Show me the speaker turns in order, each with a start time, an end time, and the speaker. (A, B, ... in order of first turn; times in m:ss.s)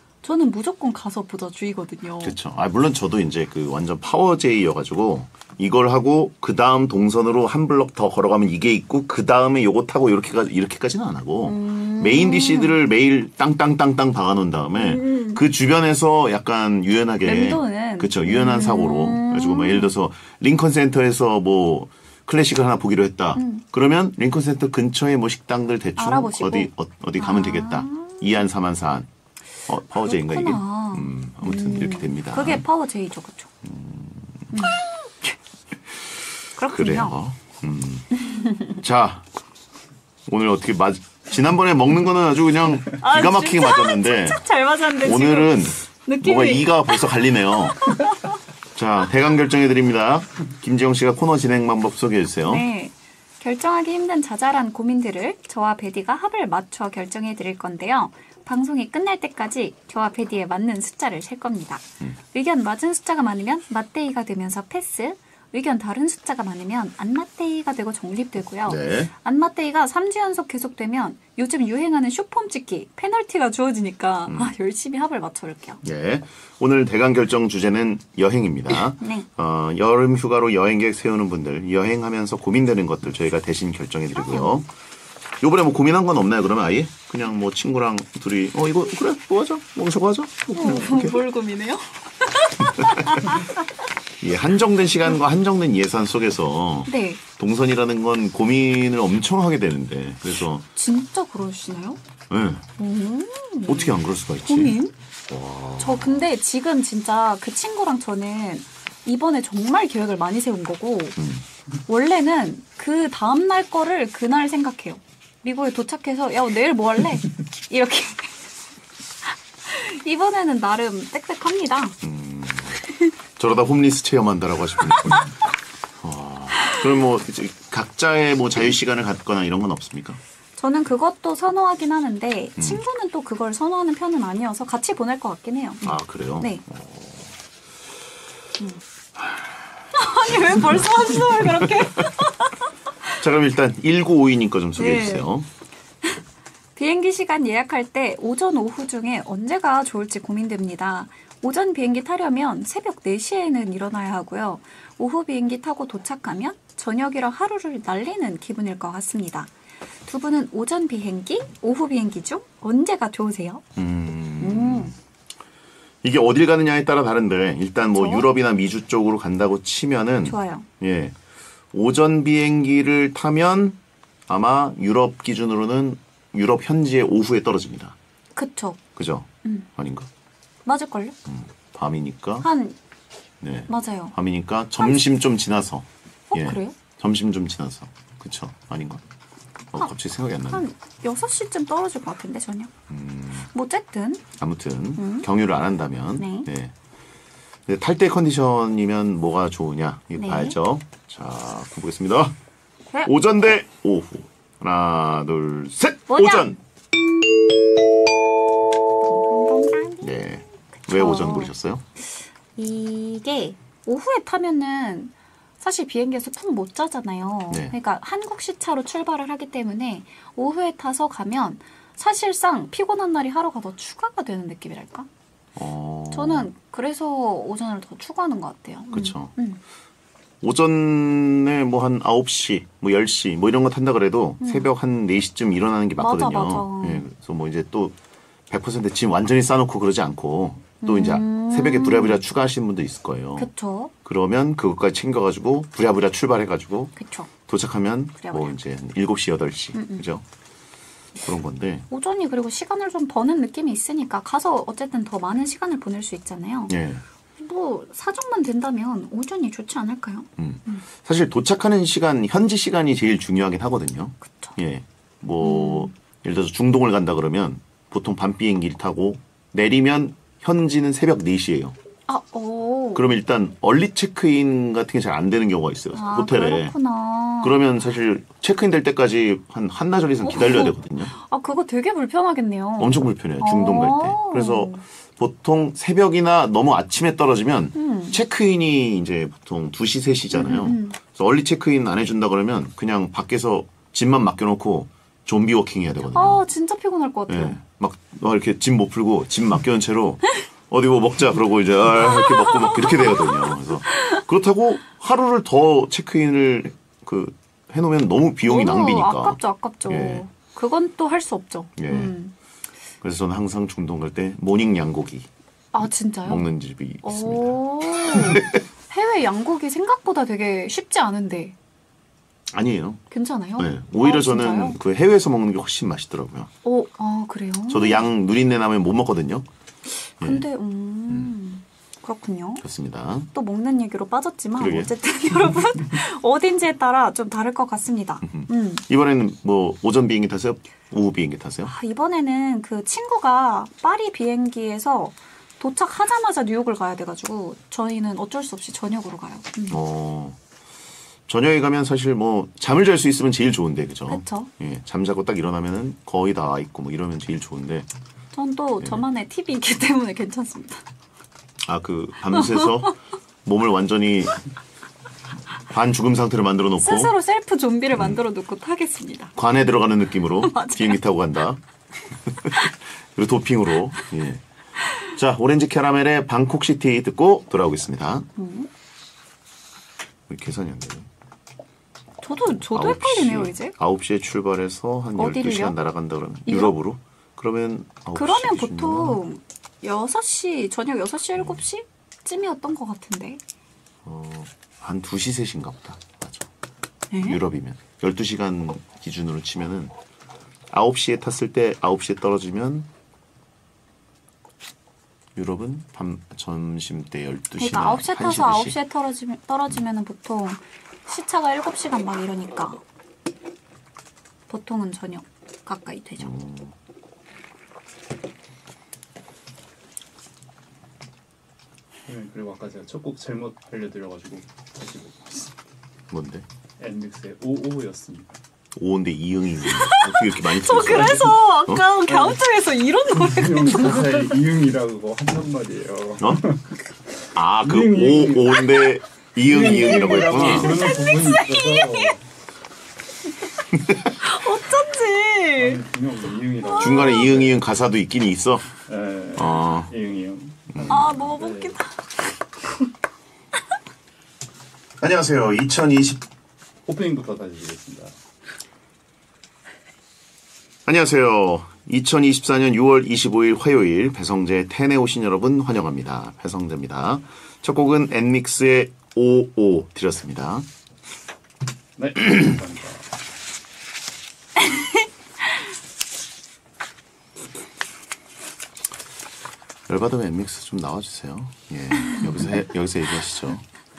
0:00.2-0:02.4 A
0:02.2-0:29.1 B
0:11.4-0:12.8 A
0:14.8-0:15.4 A
0:17.2-0:19.9 A
0:23.4-0:23.6 A
0:26.0-0:28.4 A
0:29.7-0:32.6 B
0:30.0-0:33.5 A
0:33.6-0:34.7 B
0:34.5-0:35.4 A
0:36.6-0:37.2 A
0:36.7-0:39.2 B
0:38.3-0:38.7 A
0:40.3-0:44.4 B
0:43.0-0:48.4 A
0:45.0-0:47.9 B
0:48.8-0:52.6 B
0:52.4-1:15.8 A
1:08.6-1:09.1 B
1:14.3-1:14.5 B
1:15.8-1:24.7 B
1:19.0-1:19.3 A
1:24.2-1:24.6 A
1:25.4-1:31.2 B
1:30.5-1:33.6 A
1:32.6-1:33.2 B
1:34.2-1:40.6 B
1:36.9-1:37.2 A
1:40.7-1:42.0 A
1:42.3-1:42.6 B
1:42.8-1:44.9 A
1:43.6-1:44.8 B
1:45.3-1:46.3 B
1:45.8-1:51.2 A
1:51.2-1:51.4 B
1:51.9-1:58.4 A
1:59.7-2:02.0 A
2:02.0-2:02.8 B
2:03.4-2:05.3 B
2:04.9-2:05.2 A
2:06.0-2:10.2 B
2:10.6-2:16.6 A
2:12.6-2:12.8 B
2:15.8-2:17.3 B
2:19.2-2:19.6 B
2:20.0-2:22.6 A
2:20.2-2:22.0 B
2:23.2-2:25.5 B
2:24.8-2:25.3 A
2:26.8-2:39.5 A
2:40.1-2:43.6 A
2:43.8-2:44.9 B
2:44.4-2:44.9 A
2:46.0-2:51.2 B
2:48.0-2:48.3 A
2:50.2-2:50.7 A
2:51.7-2:58.0 B
2:58.4-2:58.8 A
2:59.0-3:00.1 B
3:00.6-3:01.2 A
3:01.3-3:02.5 B
3:02.4-3:02.8 A
3:03.4-3:09.0 B
3:03.7-3:04.1 A
3:06.3-3:06.8 A
3:09.7-3:10.6 B
3:10.5-3:12.7 A
3:12.9-3:13.5 B
3:13.5-3:14.2 A
3:14.4-3:16.7 B
3:15.0-3:15.3 A
3:16.2-3:16.5 A
3:17.7-3:22.4 B
3:20.2-3:20.6 A
3:23.0-3:26.6 B
3:26.1-3:26.6 A
3:29.0-3:30.1 A
3:30.0-3:31.8 B
3:30.8-3:45.1 A
3:37.5-3:37.8 B
3:45.6-3:46.5 B
3:46.1-3:49.6 A
3:48.9-3:49.3 B
3:50.4-3:58.0 B
3:54.4-3:54.7 A
3:56.0-3:57.1 A
3:58.5-4:03.5 B
4:00.8-4:02.2 A
4:03.4-4:03.9 A
4:04.0-4:07.0 B
4:07.0-4:07.3 A
4:07.5-4:10.2 B
4:08.2-4:08.6 A
4:09.8-4:10.0 A
4:11.2-4:11.9 B
4:11.9-4:16.8 A
4:16.7-4:17.0 B
4:17.4-4:20.8 A
4:20.4-4:31.8 B
4:24.2-4:24.6 A
4:25.4-4:25.9 A
4:32.1-4:33.1 A
4:33.0-4:36.7 B
4:35.9-4:37.6 A
4:37.4-4:41.1 B
4:40.2-4:44.8 A
4:42.8-4:56.4 B
4:47.8-4:48.2 A
4:50.3-4:51.0 A
4:56.1-4:57.6 A
4:57.3-5:10.2 B
5:02.0-5:04.2 A
5:08.4-5:12.3 A
5:11.8-5:12.2 B
5:13.0-5:15.3 B
5:15.7-5:16.4 A
5:16.2-5:18.6 B
5:17.0-5:21.6 A
5:22.5-5:23.0 B
5:23.1-5:24.8 A
5:23.6-5:26.5 B
5:26.6-5:28.0 A
5:27.7-5:29.5 B
5:29.9-5:32.6 A
5:30.2-5:30.5 B
5:31.1-5:31.3 B
5:32.6-5:33.3 B
5:33.3-5:38.8 A
5:34.6-5:34.9 B
5:38.2-5:41.7 B
5:41.6-5:49.8 A
5:49.7-5:50.4 B
5:51.3-5:57.9 B
5:54.1-5:54.5 A
5:58.3-6:00.8 A
6:01.6-6:04.4 B
6:02.3-6:02.8 A
6:05.7-6:07.1 B
6:06.8-6:09.3 A
6:07.9-6:08.2 B
6:09.4-6:11.6 B
6:10.4-6:11.0 A
6:12.3-6:18.3 B
6:18.4-6:18.7 A
6:20.3-6:21.1 B
6:22.2-6:23.7 A
6:22.6-6:29.2 B
6:25.2-6:25.8 A
6:26.5-6:26.8 A
6:28.2-6:33.4 A
6:31.4-6:31.6 B
6:34.0-6:36.5 B
6:37.1-6:37.4 A
6:37.2-6:39.9 B
6:40.7-6:42.9 B
6:45.4-6:48.8 B
6:47.6-6:52.8 A
6:54.5-6:56.4 A
6:56.2-6:56.8 B
7:02.1-7:05.5 C
7:06.1-7:06.4 B
7:06.8-7:08.3 C
7:08.8-7:12.0 B
7:09.6-7:14.1 A
7:13.1-7:16.8 C
7:17.3-7:20.9 B
7:17.6-7:18.6 C
7:19.4-7:22.2 C
7:19.9-7:22.1 A
7:23.7-7:24.0 B
7:24.2-7:25.8 A
7:25.6-7:27.6 C
7:26.7-7:27.3 A
7:26.8-7:28.7 B
7:28.9-7:31.8 C
7:29.4-7:29.9 B
7:30.7-7:31.2 B
7:30.9-7:32.0 A
7:35.0-7:36.2 B
7:36.9-7:38.1 C
7:40.8-7:50.7 B
7:52.0-7:53.1 C
7:59.9-8:03.6 B